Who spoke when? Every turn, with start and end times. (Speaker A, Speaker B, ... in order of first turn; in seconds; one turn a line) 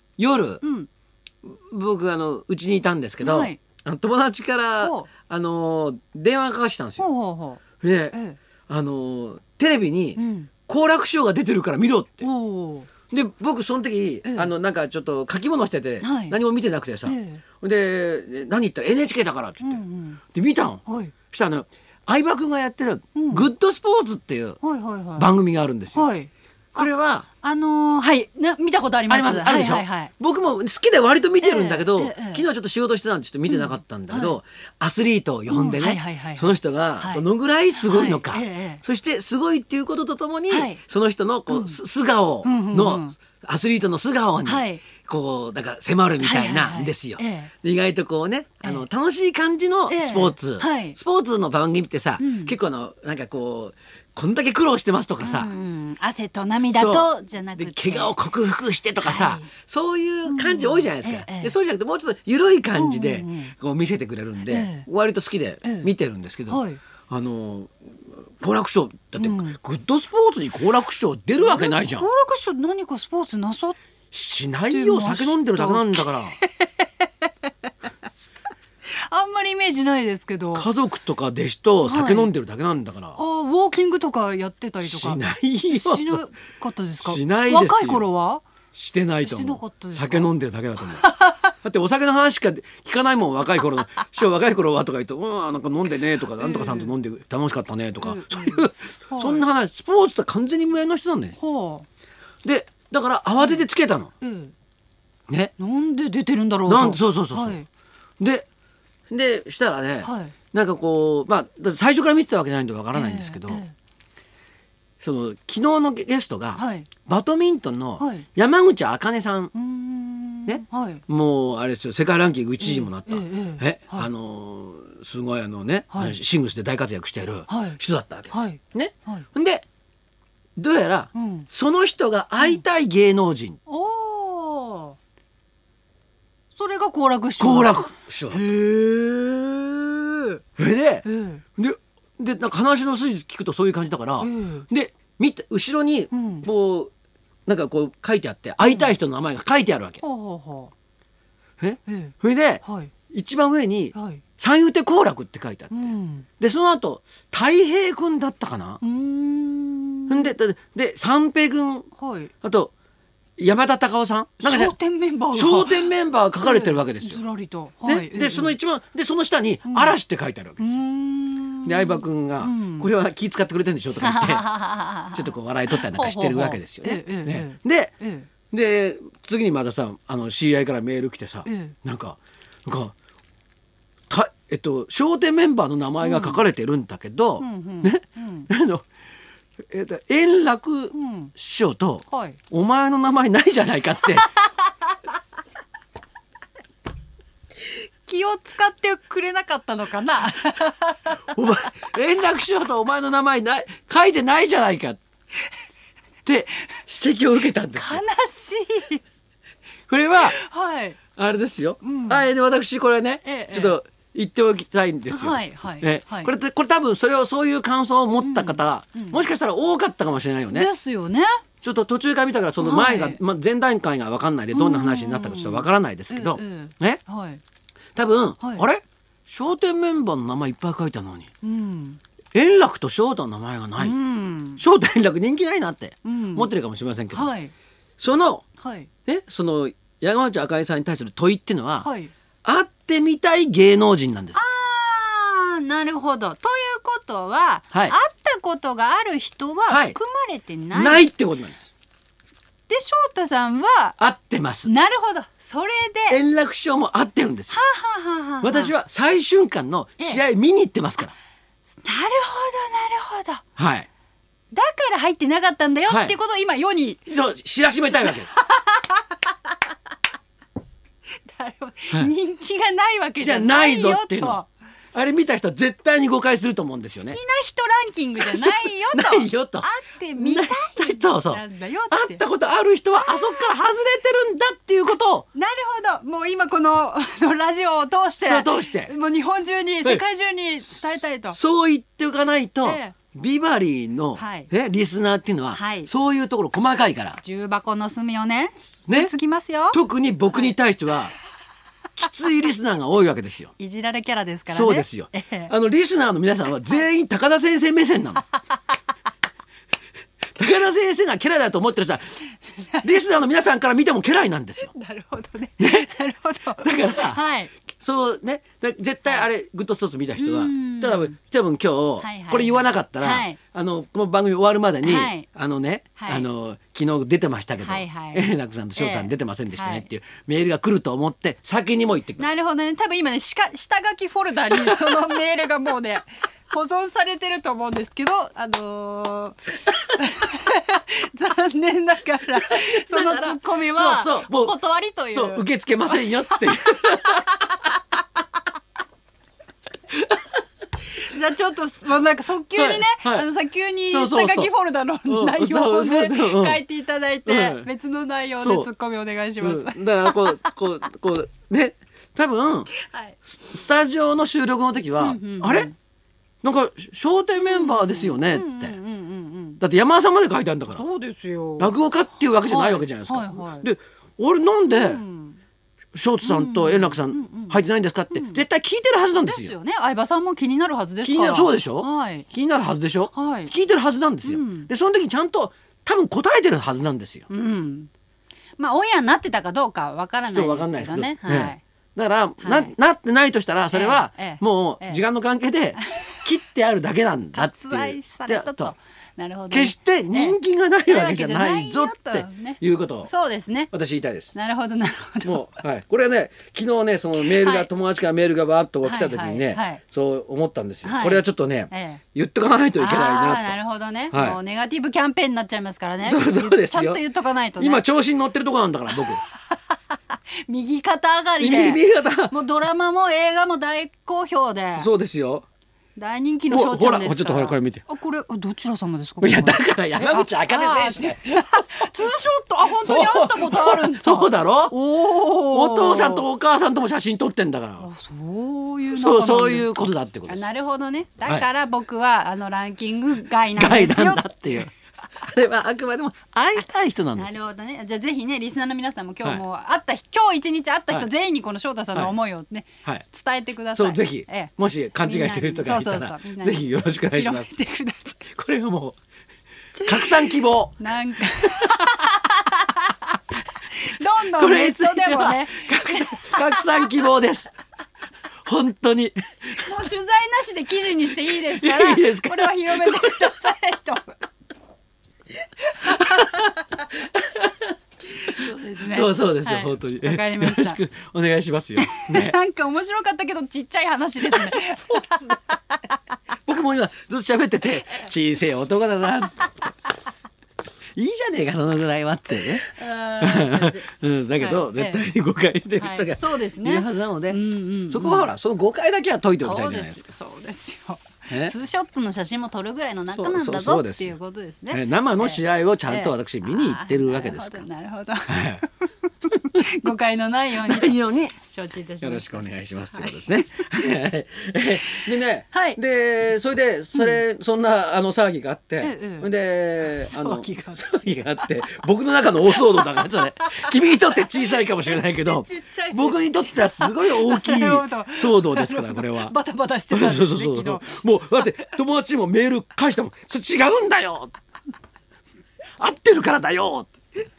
Speaker A: 0.2-0.6
Speaker B: 0.6-0.9
Speaker A: 1.4-7.0
Speaker B: 3.2-3.6
Speaker B: 4.8-5.1
Speaker B: 7.0-8.4
Speaker A: 7.8-8.2
Speaker A: 8.7-12.3
Speaker B: 10.2-10.5
Speaker B: 12.2-12.9
Speaker A: 13.1-19.8
Speaker B: 16.0-16.4
Speaker B: 17.1-17.4
Speaker B: 19.6-20.2
Speaker A: 20.3-24.6
Speaker B: 20.9-21.1
Speaker B: 23.1-23.5
Speaker B: 24.6-25.3
Speaker A: 25.2-26.1
Speaker B: 25.9-26.9
Speaker A: 26.7-27.3
Speaker B: 27.4-30.1
Speaker A: 29.1-55.5
Speaker B: 31.4-32.5
Speaker B: 33.5-34.4
Speaker B: 35.5-37.2
Speaker B: 37.8-38.8
Speaker B: 40.5-40.8
Speaker B: 41.5-41.8
Speaker B: 42.4-43.2
Speaker B: 44.5-44.8
Speaker B: 46.2-47.5
Speaker B: 49.9-51.0
Speaker B: 52.2-52.5
Speaker B: 55.2-58.1
Speaker A: 56.7-67.7
Speaker B: 59.0-59.5
Speaker B: 60.3-61.5
Speaker B: 62.8-63.5
Speaker B: 64.5-64.9
Speaker B: 65.6-65.9
Speaker B: 66.5-66.8
Speaker A: 68.4-72.1
Speaker B: 69.2-69.6
Speaker B: 71.4-73.8
Speaker A: 74.1-76.4
Speaker B: 74.7-77.7
Speaker B: 78.9-80.7
Speaker A: 80.5-83.2
Speaker B: 81.8-82.3
Speaker B: 83.2-85.2
Speaker A: 84.8-86.2
Speaker B: 85.7-88.5
Speaker A: 87.0-88.1
Speaker A: 88.7-91.0
Speaker B: 89.2-90.3
Speaker B: 91.0-91.4
Speaker A: 91.6-101.4
Speaker B: 96.4-96.9
Speaker B: 98.0-99.5
Speaker B: 101.4-101.9
Speaker A: 102.4-104.1
Speaker B: 103.4-103.6
Speaker B: 104.2-104.5
Speaker B: 105.6-107.7
Speaker A: 106.7-107.6
Speaker A: 108.2-108.5
Speaker A: 109.1-113.6
Speaker B: 110.0-110.3
Speaker B: 112.9-113.7
Speaker A: 115.0-119.5
Speaker B: 116.6-116.9
Speaker B: 118.0-118.3
Speaker B: 119.5-121.0
Speaker A: 120.5-129.7
Speaker B: 122.6-124.1
Speaker B: 127.5-127.8
Speaker B: 128.3-129.3
Speaker A: 130.6-133.6
Speaker B: 131.2-131.5
Speaker B: 133.7-135.0
Speaker B: 136.6-137.8
Speaker A: 137.4-138.5
Speaker B: 138.3-140.4
Speaker A: 140.6-141.1
Speaker B: 141.1-141.4
Speaker A: 141.6-146.9
Speaker B: 144.2-144.7
Speaker B: 146.1-146.5
Speaker A: 147.5-150.0
Speaker B: 150.0-150.7
Speaker A: 151.6-155.7
Speaker B: 151.9-152.9
Speaker B: 153.9-154.2
Speaker B: 155.7-156.3
Speaker A: 156.4-158.8
Speaker B: 158.8-160.3
Speaker A: 160.1-161.9
Speaker B: 162.0-162.3
Speaker A: 162.4-162.7
Speaker A: 163.4-164.7
Speaker B: 164.4-168.6
Speaker A: 165.3-167.2
Speaker A: 167.8-170.6
Speaker B: 169.7-169.9
Speaker B: 170.6-172.9
Speaker A: 171.7-174.5
Speaker B: 174.0-178.3
Speaker A: 175.1-177.9
Speaker A: 178.5-182.9
Speaker B: 181.4-181.8
Speaker A: 184.1-188.8
Speaker B: 186.0-186.4
Speaker B: 187.4-188.5
Speaker A: 189.7-194.3
Speaker B: 190.9-191.3
Speaker B: 192.1-192.4
Speaker B: 197.7-201.2
Speaker A: 201.2-205.0
Speaker A: 206.2-208.0
Speaker B: 207.8-209.0
Speaker A: 209.9-210.4
Speaker B: 210.2-211.0
Speaker A: 211.2-220.7
Speaker B: 211.8-212.2
Speaker B: 213.2-213.8
Speaker B: 215.1-216.3
Speaker B: 218.2-219.2
Speaker B: 220.5-221.3
Speaker A: 221.6-227.0
Speaker B: 222.6-223.2
Speaker B: 224.5-227.4
Speaker A: 227.9-231.3
Speaker B: 228.4-228.7
Speaker B: 231.4-232.0
Speaker A: 232.3-234.0
Speaker B: 233.8-234.6
Speaker A: 234.6-237.3
Speaker B: 236.1-236.5
Speaker B: 237.1-237.5
Speaker A: 238.0-238.4
Speaker B: 238.6-238.9
Speaker A: 239.1-241.9
Speaker B: 241.8-242.1
Speaker A: 242.4-244.4
Speaker B: 244.3-251.1
Speaker A: 247.7-248.0
Speaker A: 249.7-250.0
Speaker A: 250.7-251.7
Speaker B: 252.7-254.0
Speaker A: 254.0-254.7
Speaker B: 254.7-256.2
Speaker A: 256.1-257.6
Speaker B: 257.5-258.7
Speaker A: 258.4-261.1
Speaker B: 261.8-263.4
Speaker A: 263.6-263.9
Speaker B: 264.5-267.0
Speaker A: 265.9-266.1
Speaker A: 267.1-268.3
Speaker B: 267.9-269.3
Speaker B: 271.3-274.5
Speaker A: 273.2-274.4
Speaker A: 274.9-277.2
Speaker B: 277.0-282.2
Speaker A: 278.2-285.3
Speaker B: 283.0-283.5
Speaker B: 285.4-291.4
Speaker A: 288.2-288.9
Speaker A: 290.7-297.2
Speaker B: 292.6-293.0
Speaker B: 294.2-294.5
Speaker B: 295.5-295.9
Speaker B: 297.2-299.8
Speaker A: 299.7-301.1
Speaker A: 302.0-303.5
Speaker B: 303.6-305.5
Speaker A: 304.5-308.2
Speaker A: 310.4-312.2
Speaker A: 312.8-314.7
Speaker B: 314.7-317.5
Speaker A: 315.6-316.0
Speaker A: 316.6-332.4
Speaker B: 320.2-321.1
Speaker B: 322.0-323.4
Speaker B: 324.8-325.3
Speaker B: 326.0-326.3
Speaker B: 327.6-329.9
Speaker B: 332.2-347.6
Speaker A: 342.3-344.6
Speaker A: 345.1-347.2
Speaker B: 351.0-360.5
Speaker A: 352.6-353.3
Speaker A: 353.9-354.5
Speaker A: 355.1-356.6
Speaker A: 357.3-357.7
Speaker A: 358.4-358.7
Speaker A: 359.4-362.7
Speaker A: 363.2-365.7
Speaker B: 365.0-365.8
Speaker A: 366.4-368.8
Speaker B: 367.4-369.6
Speaker A: 369.6-370.9
Speaker B: 370.7-371.8
Speaker A: 371.6-375.0
Speaker B: 372.4-373.7
Speaker B: 374.7-375.4
Speaker A: 375.9-379.5
Speaker B: 376.2-377.6
Speaker B: 378.1-378.4
Speaker B: 379.2-382.3
Speaker A: 381.0-387.3
Speaker B: 383.1-383.5
Speaker B: 384.2-384.7
Speaker B: 387.3-387.9
Speaker B: 388.6-391.6
Speaker A: 390.3-398.8
Speaker B: 392.4-392.7
Speaker B: 393.7-395.0
Speaker B: 395.8-396.2
Speaker B: 397.3-400.4
Speaker A: 399.5-403.1
Speaker B: 400.9-403.7
Speaker A: 403.7-404.4
Speaker B: 404.3-405.6
Speaker A: 405.2-413.6
Speaker B: 407.2-407.7
Speaker B: 408.8-409.8
Speaker B: 410.8-412.0
Speaker B: 412.8-417.8
Speaker A: 414.1-414.4
Speaker A: 416.0-417.0
Speaker A: 417.6-419.2
Speaker B: 419.1-424.9
Speaker A: 421.4-422.3
Speaker A: 424.8-425.5
Speaker B: 426.0-436.3
Speaker A: 426.5-427.9
Speaker A: 429.2-431.9
Speaker A: 432.8-434.8
Speaker A: 435.3-437.9
Speaker B: 437.8-444.7
Speaker A: 438.9-440.5
Speaker A: 443.6-447.4
Speaker B: 447.1-458.2
Speaker A: 453.7-457.5
Speaker A: 458.3-459.0
Speaker B: 459.8-462.9
Speaker A: 459.8-461.8
Speaker B: 463.7-466.9
Speaker A: 464.3-467.5
Speaker A: 468.5-469.6
Speaker B: 469.6-474.2
Speaker A: 471.2-473.5
Speaker B: 475.8-476.6
Speaker A: 475.9-476.5
Speaker A: 477.2-477.5
Speaker B: 478.2-480.8
Speaker A: 478.3-482.4
Speaker B: 481.8-485.8
Speaker A: 484.3-485.4
Speaker A: 486.5-489.7
Speaker A: 491.0-500.0
Speaker B: 492.4-493.9
Speaker B: 494.4-495.0
Speaker B: 495.8-498.3
Speaker B: 499.4-513.3
Speaker A: 501.3-501.5
Speaker A: 503.1-504.1
Speaker A: 504.7-507.6
Speaker A: 508.3-508.6
Speaker A: 510.6-511.4
Speaker A: 512.0-529.4
Speaker B: 514.9-515.8
Speaker B: 518.8-520.8
Speaker B: 522.5-531.5
Speaker A: 529.9-534.3
Speaker A: 535.8-536.9